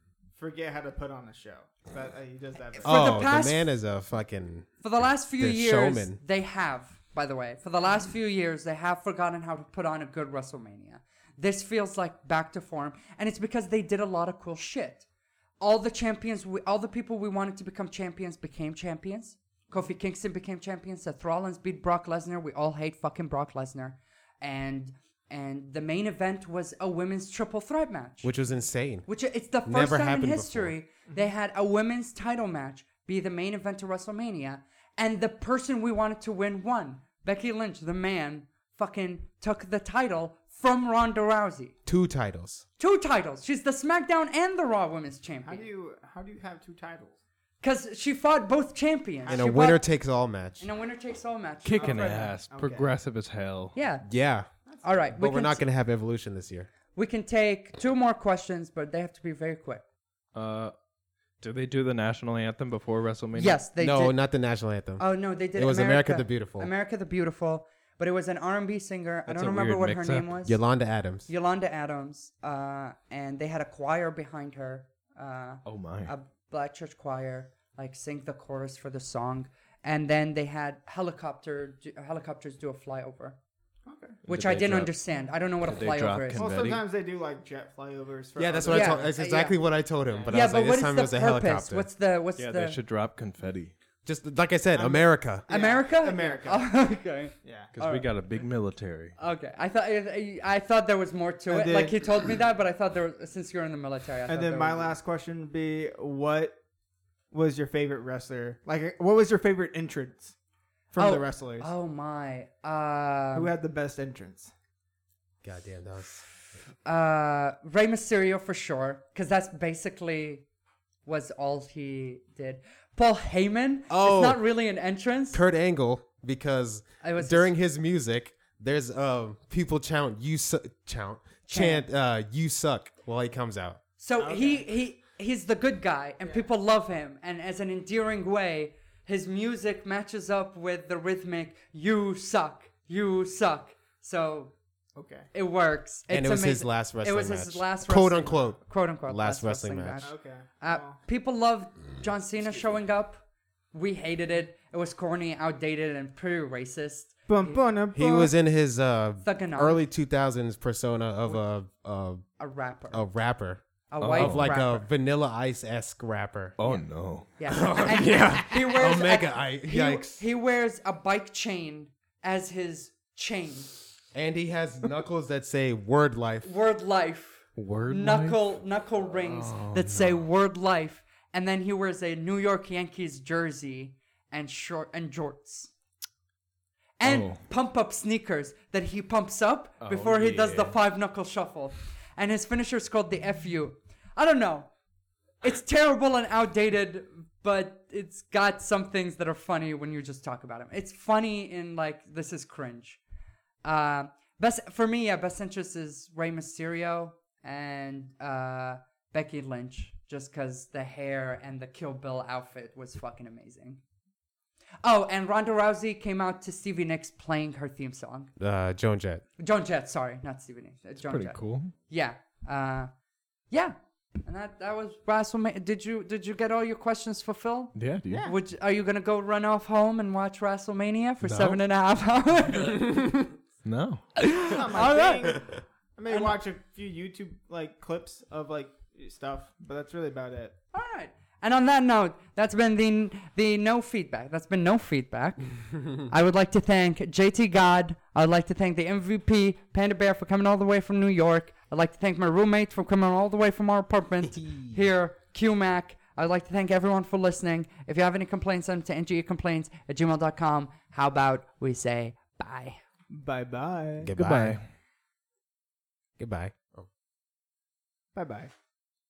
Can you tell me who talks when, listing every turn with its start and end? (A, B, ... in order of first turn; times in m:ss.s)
0:00.4-0:03.3 A
0:02.8-0:03.7 B
0:02.8-0:04.8 C
0:04.8-0:15.0 B
0:05.4-0:06.2 C
0:15.6-0:28.3 B
0:28.2-0:29.1 C
0:29.1-0:41.7 B
0:29.6-0:30.7 C
0:41.8-0:42.6 C
0:42.8-0:45.6 B
0:45.4-0:47.2 A
0:47.6-0:49.8 B
0:49.2-0:49.5 A
0:49.3-0:50.7 C
0:50.6-0:52.4 B
0:51.6-0:53.7 D
0:51.8-0:52.9 A
0:53.7-0:54.0 B
0:54.0-0:54.5 C
0:54.7-0:55.1 A
0:54.8-0:55.6 B
0:55.1-0:56.7 C
0:56.9-0:59.8 B
1:00.3-1:00.7 D
1:01.4-1:03.6 D
1:03.4-1:04.2 B
1:03.8-1:06.7 C
1:05.0-1:10.6 B
1:09.3-1:10.2 D
1:10.4-1:11.3 C
1:11.3-1:23.4 B
1:15.6-1:16.1 D
1:23.8-1:24.2 A
1:24.2-1:24.9 D
1:24.3-1:26.4 B
1:25.6-1:26.8 D
1:26.4-1:29.1 A
1:28.4-1:31.9 C
1:28.7-1:29.6 B
1:30.1-1:30.4 A
1:30.3-1:32.8 B
1:32.4-1:33.7 D
1:34.0-1:35.4 C
1:34.7-1:36.7 A
1:35.5-1:38.1 B
1:37.4-1:37.7 A
1:37.7-1:39.1 D
1:39.2-1:44.9 B
1:41.5-1:42.0 A
1:44.3-1:46.6 A
1:47.3-1:50.3 A
1:50.9-1:51.7 A
1:51.0-1:53.5 B
1:53.3-1:54.5 A
1:55.4-1:56.2 C
1:56.8-2:00.4 B
2:01.0-2:05.4 B
2:03.9-2:04.4 C
2:05.3-2:13.8 C
2:07.0-2:07.5 B
2:11.5-2:11.9 B
2:14.0-2:24.5 B
2:14.2-2:14.7 A
2:25.0-2:25.3 A
2:25.3-2:33.2 B
2:26.1-2:30.1 C
2:30.0-2:31.0 A
2:32.4-2:32.7 A
2:33.7-2:37.6 B
2:37.3-2:38.3 A
2:37.9-2:42.3 C
2:39.2-2:39.8 B
2:42.4-2:43.1 B
2:42.9-2:46.6 C
2:43.9-2:44.8 B
2:44.0-2:44.5 D
2:46.6-2:47.3 D
2:47.4-2:53.7 B
2:47.5-2:50.2 C
2:54.1-2:56.5 C
2:56.4-3:05.7 B
2:57.6-2:58.4 D
2:59.1-3:00.2 D
3:07.0-3:14.7 B
3:07.0-3:07.4 D
3:09.8-3:10.8 D
3:15.4-3:23.0 B
3:23.6-3:33.8 B
3:34.8-3:38.3 B
3:38.4-3:39.2 C
3:39.4-3:42.9 B
3:41.0-3:41.7 D
3:43.5-3:52.9 B
3:47.7-3:48.2 D
3:48.1-3:48.4 A
3:51.2-3:51.6 D
3:53.6-3:54.1 D
3:54.2-3:55.4 B
3:54.5-4:00.6 A
4:00.7-4:22.8 B
4:23.1-4:24.1 A
4:24.0-4:24.6 C
4:24.2-4:24.6 D
4:26.2-4:26.9 C
4:28.1-4:28.5 A